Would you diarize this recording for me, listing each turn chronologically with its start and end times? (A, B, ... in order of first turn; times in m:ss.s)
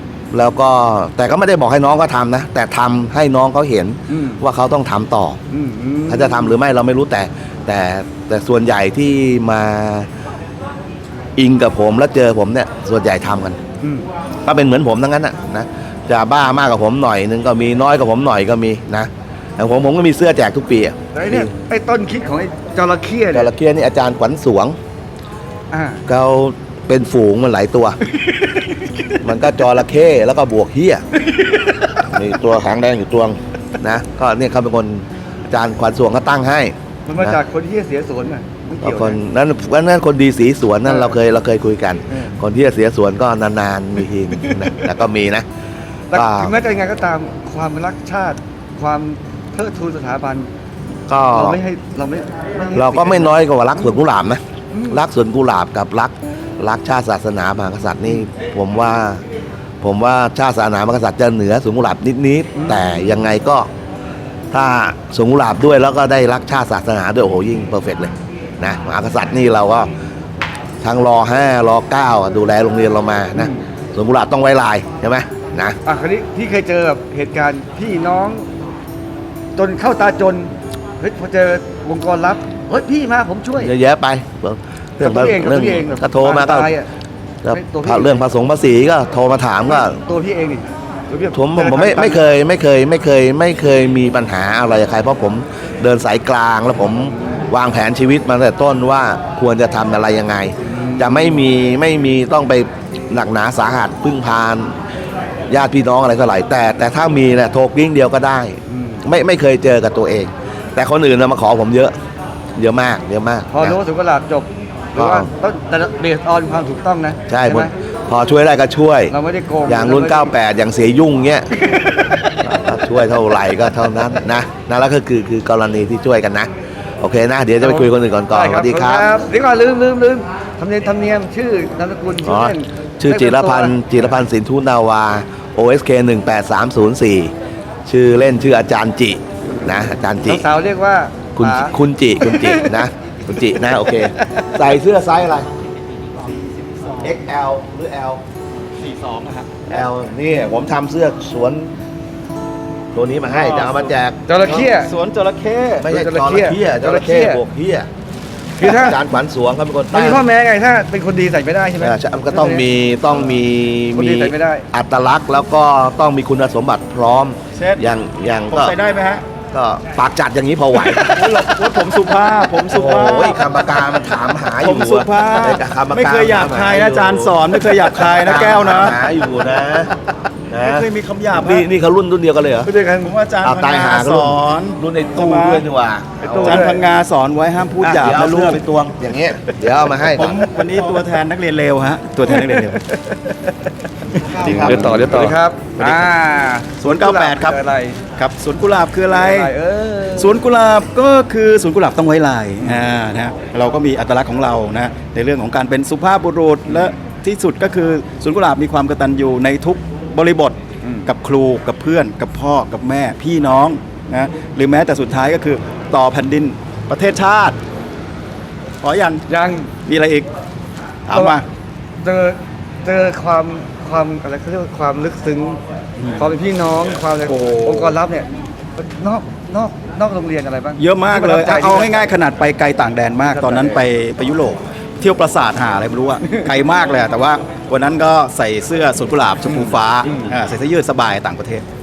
0:00.3-0:05.4 A
0:04.1-0:04.4 B
0:05.5-0:06.6 B
0:06.1-0:10.1 A
0:11.4-0:13.6 A
0:13.8-0:14.1 B
0:14.4-0:21.5 A
0:21.1-0:23.5 B
0:23.3-0:24.8 A
0:25.7-0:26.0 B
0:26.1-0:28.0 A
0:29.2-0:31.0 A
0:32.0-0:37.4 A
0:37.0-0:39.2 B
0:38.8-0:45.4 A
0:40.8-0:41.2 B
0:42.1-0:42.4 B
0:46.1-0:50.5 B
0:46.1-0:46.5 A
0:51.1-0:51.6 A
0:51.3-0:53.4 B
0:52.7-0:59.2 A
0:54.7-0:55.0 B
0:59.8-1:03.7 A
1:02.5-1:03.0 B
1:04.5-1:09.9 A
1:10.8-1:15.8 A
1:13.4-1:13.6 B
1:15.8-1:18.5 B
1:19.6-1:23.7 B
1:23.6-1:26.7 A
1:25.0-1:26.9 B
1:27.4-1:30.0 A
1:27.5-1:28.3 B
1:29.7-1:32.4 B
1:31.3-1:44.7 A
1:40.7-1:41.4 B
1:45.5-1:51.9 A
1:48.7-1:49.0 B
1:52.6-1:53.8 A
1:53.5-1:57.7 B
1:55.0-1:55.3 A
1:57.3-1:59.1 A
1:59.1-2:00.3 B
1:59.6-2:01.5 A
2:01.6-2:02.6 B
2:02.5-2:06.5 A
2:07.0-2:09.1 A
2:07.6-2:13.7 B
2:12.2-2:17.3 A
2:17.8-2:20.5 A
2:20.2-2:22.8 B
2:21.4-2:25.5 A
2:26.3-2:27.0 C
2:27.0-2:28.2 A
2:28.8-2:29.7 C
2:29.7-2:31.7 A
2:32.9-2:34.5 A
2:33.3-2:33.9 C
2:34.3-2:34.9 B
2:34.6-2:35.8 C
2:35.8-2:37.9 A
2:35.9-2:37.4 B
2:38.6-2:39.0 B
2:38.6-2:40.2 A
2:39.9-2:42.6 B
2:41.8-2:48.7 A
2:43.9-2:44.6 B
2:47.5-2:47.8 C
2:48.5-2:49.2 C
2:49.5-2:51.4 A
2:50.8-2:53.4 C
2:52.7-3:00.0 A
2:54.6-2:59.0 C
3:00.5-3:02.7 A
3:00.6-3:01.6 C
3:02.6-3:03.1 B
3:03.0-3:05.6 C
3:03.4-3:06.6 A
3:06.2-3:06.8 B
3:06.3-3:08.6 C
3:07.8-3:10.4 A
3:10.1-3:12.8 C
3:12.3-3:13.5 B
3:14.1-3:16.1 C
3:14.4-3:18.0 B
3:14.4-3:14.8 A
3:16.8-3:17.6 C
3:18.2-3:19.5 C
3:19.1-3:20.4 B
3:20.2-3:37.6 C
3:30.8-3:31.1 B
3:38.8-3:39.2 C
3:39.3-3:39.7 B
3:39.8-3:40.3 C
3:41.1-3:41.4 C
3:42.0-3:45.6 B
3:46.0-3:46.3 C
3:46.2-3:52.1 B
3:47.2-3:48.0 C
3:50.8-4:01.7 C
3:53.2-3:53.8 B
3:56.2-3:56.5 B
3:59.5-4:00.3 B